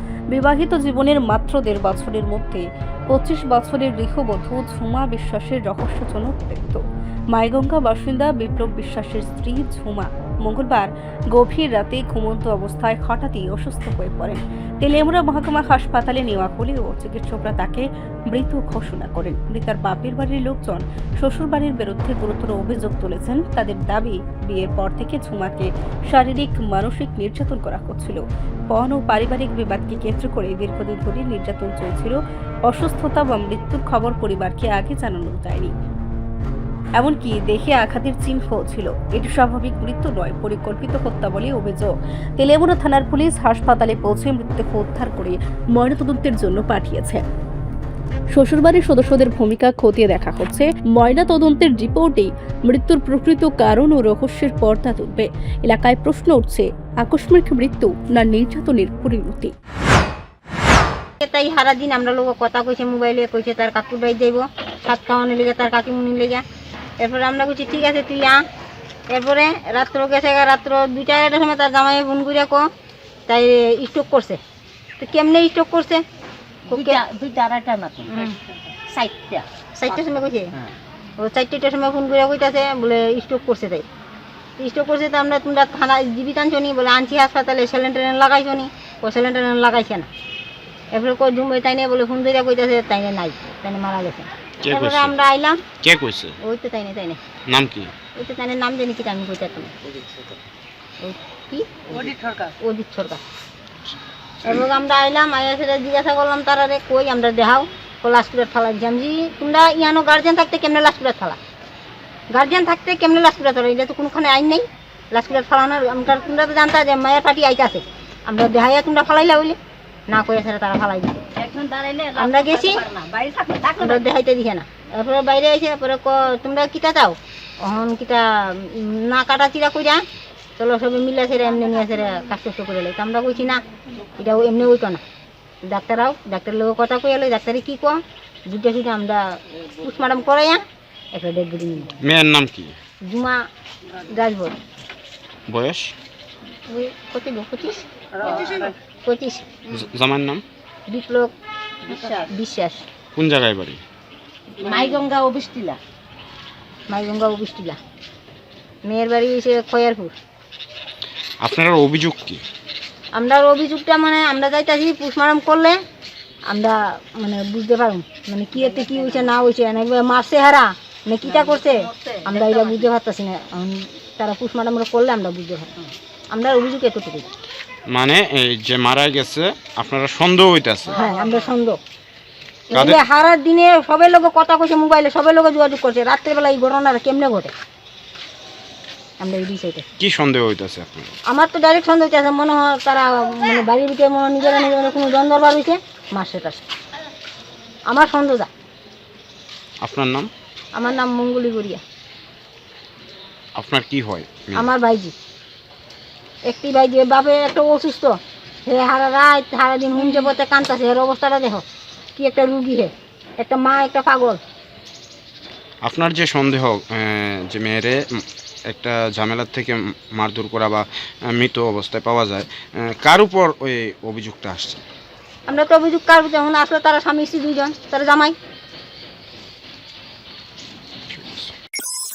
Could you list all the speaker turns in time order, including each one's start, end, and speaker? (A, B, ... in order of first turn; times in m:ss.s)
0:00.3-0:06.8 A
0:07.3-0:35.7 A
0:37.0-0:47.2 A
0:48.3-0:59.5 A
1:01.2-1:06.4 B
1:07.0-1:08.4 B
1:09.1-1:12.6 B
1:13.3-1:14.4 B
1:15.0-1:16.0 B
1:16.7-1:17.0 B
1:16.7-1:18.4 C
1:18.9-1:20.7 C
1:19.8-1:20.5 B
1:21.2-1:23.8 B
1:24.6-1:30.1 B
1:30.9-1:35.6 B
1:34.6-1:35.2 D
1:35.8-1:36.4 D
1:36.4-1:37.2 B
1:37.5-1:37.9 D
1:38.2-1:39.7 B
1:41.0-1:43.2 B
1:44.4-1:51.4 B
1:52.3-1:59.6 B
2:00.1-2:01.2 B
2:01.4-2:04.0 C
2:02.2-2:02.8 B
2:03.8-2:10.0 B
2:10.6-2:13.6 B
2:14.2-2:15.0 B
2:15.6-2:20.6 B
2:21.1-2:21.9 B
2:22.0-2:22.8 D
2:23.0-2:23.4 B
2:24.1-2:24.6 B
2:25.5-2:26.0 D
2:26.7-2:28.5 B
2:28.2-2:28.7 C
2:29.0-2:29.5 B
2:29.7-2:30.4 D
2:30.9-2:31.3 B
2:31.9-2:32.3 C
2:31.9-2:32.8 B
2:33.2-2:33.8 D
2:34.6-2:35.8 C
2:36.9-2:37.8 B
2:38.8-2:40.1 B
2:41.4-2:42.4 D
2:43.1-2:45.8 B
2:46.5-2:55.7 B
2:48.8-2:49.2 C
2:51.3-2:52.9 C
2:56.3-2:57.3 B
2:57.9-3:01.1 D
3:00.9-3:01.5 C
3:01.0-3:01.8 B
3:02.7-3:07.5 B
3:02.7-3:03.0 D
3:09.2-3:09.8 B
3:10.0-3:11.1 D
3:11.3-3:16.6 B
3:17.9-3:18.5 B
3:19.8-3:20.3 D
3:20.8-3:21.8 B
3:23.6-3:24.7 D
3:24.6-3:25.1 B
3:26.5-3:31.6 B
3:32.2-3:34.4 B
3:35.8-3:44.8 D
3:45.5-3:48.4 B
3:51.1-3:51.5 D